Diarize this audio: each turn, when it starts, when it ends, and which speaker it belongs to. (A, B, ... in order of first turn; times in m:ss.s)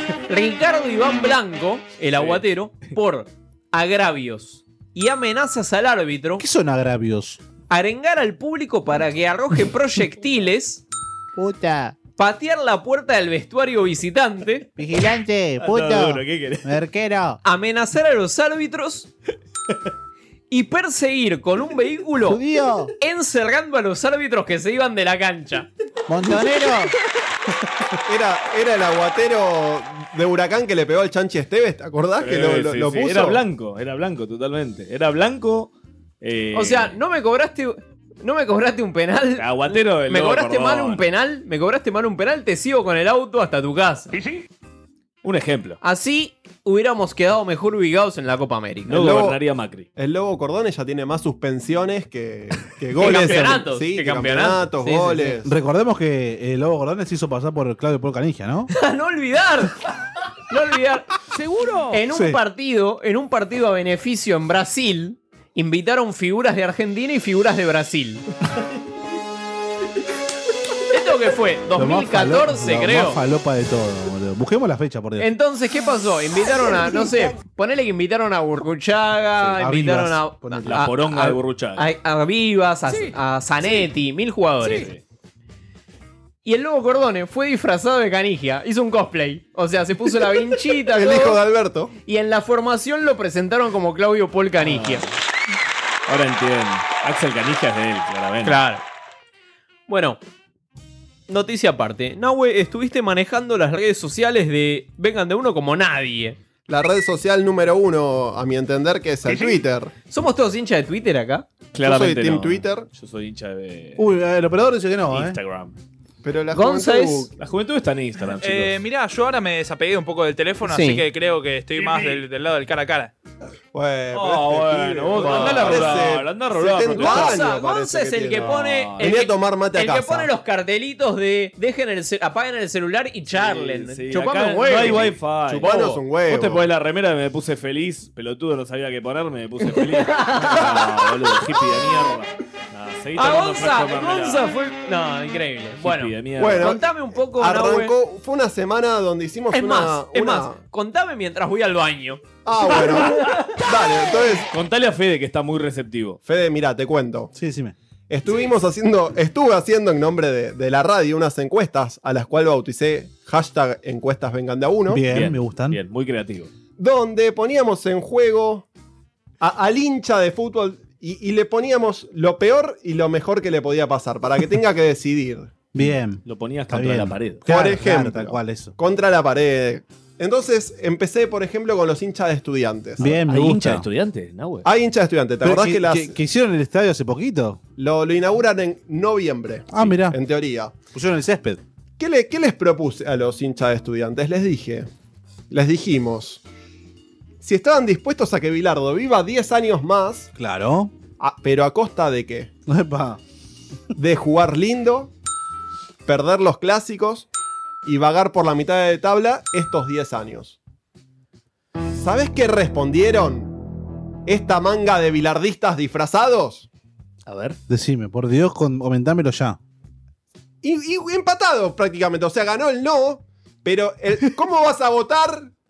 0:00.3-0:06.4 A
0:02.1-0:02.4 B
0:06.4-0:07.4 C
0:07.7-0:10.8 A
0:11.4-0:12.0 C
0:12.2-0:14.6 A
0:14.8-0:17.4 C
0:15.6-0:16.8 B
0:17.4-0:19.1 A
0:20.5-0:22.4 A
0:22.2-0:22.9 C
0:23.0-0:25.7 A
0:26.1-0:26.9 C
0:28.1-0:33.4 D
0:32.2-0:37.0 B
0:36.5-0:44.1 A
0:39.4-0:41.0 B
0:45.2-0:45.8 B
0:45.8-0:49.0 A
0:48.9-0:49.9 B
0:49.0-0:49.4 D
0:50.0-0:55.5 D
0:53.0-0:55.4 A
0:55.4-0:58.7 C
0:58.7-0:59.7 A
1:00.5-1:01.1 A
1:01.3-1:02.0 E
1:01.9-1:08.2 A
1:02.1-1:02.4 C
1:10.9-1:13.2 A
1:11.8-1:15.3 C
1:15.2-1:24.9 A
1:19.6-1:20.7 C
1:20.6-1:21.8 B
1:22.9-1:23.2 E
1:24.6-1:24.9 E
1:24.7-1:25.0 B
1:26.4-1:31.4 A
1:30.9-1:31.9 D
1:32.0-1:35.1 A
1:34.6-1:35.1 B
1:36.1-1:38.6 B
1:38.4-1:38.8 A
1:39.9-1:40.2 A
1:41.3-1:46.4 A
1:46.7-1:49.9 D
1:50.1-1:51.5 A
1:51.7-1:54.0 B
1:51.8-1:52.9 D
1:54.0-1:55.4 C
1:55.1-1:55.7 B
1:56.2-1:57.3 D
1:56.5-1:57.3 A
1:57.4-1:58.8 B
1:58.4-2:03.1 E
2:00.6-2:01.0 A
2:03.7-2:10.3 D
2:04.1-2:07.4 B
2:05.3-2:05.7 A
2:06.9-2:15.1 A
2:08.4-2:09.2 B
2:13.3-2:24.5 B
2:15.5-2:16.6 D
2:20.1-2:20.7 A
2:23.2-2:27.9 A
2:25.8-2:26.8 B
2:26.4-2:30.6 D
2:29.5-2:33.2 A
2:32.4-2:34.5 D
2:34.5-2:36.2 B
2:36.2-2:37.3 D
2:37.3-2:37.7 C
2:38.1-2:45.0 D
2:44.9-2:45.8 C
2:45.1-2:46.5 B
2:46.8-2:48.7 D
2:49.4-2:55.5 D
2:55.7-2:58.7 C
2:55.8-2:57.4 B
2:57.5-3:03.1 D
3:03.0-3:03.8 C
3:03.0-3:04.7 B
3:04.6-3:06.1 D
3:05.4-3:07.6 C
3:07.8-3:10.7 D
3:09.7-3:10.2 C
3:10.9-3:11.6 C
3:12.0-3:14.9 D
3:15.5-3:16.4 D
3:17.4-3:20.3 D
3:20.4-3:20.9 C
3:21.2-3:22.5 D
3:22.7-3:23.2 C
3:24.0-3:25.1 D
3:26.0-3:27.3 D
3:27.8-3:30.6 D
3:31.9-3:33.5 D
3:34.2-3:36.7 D
3:37.3-3:37.6 B
3:37.7-3:39.6 C
3:40.6-3:45.5 D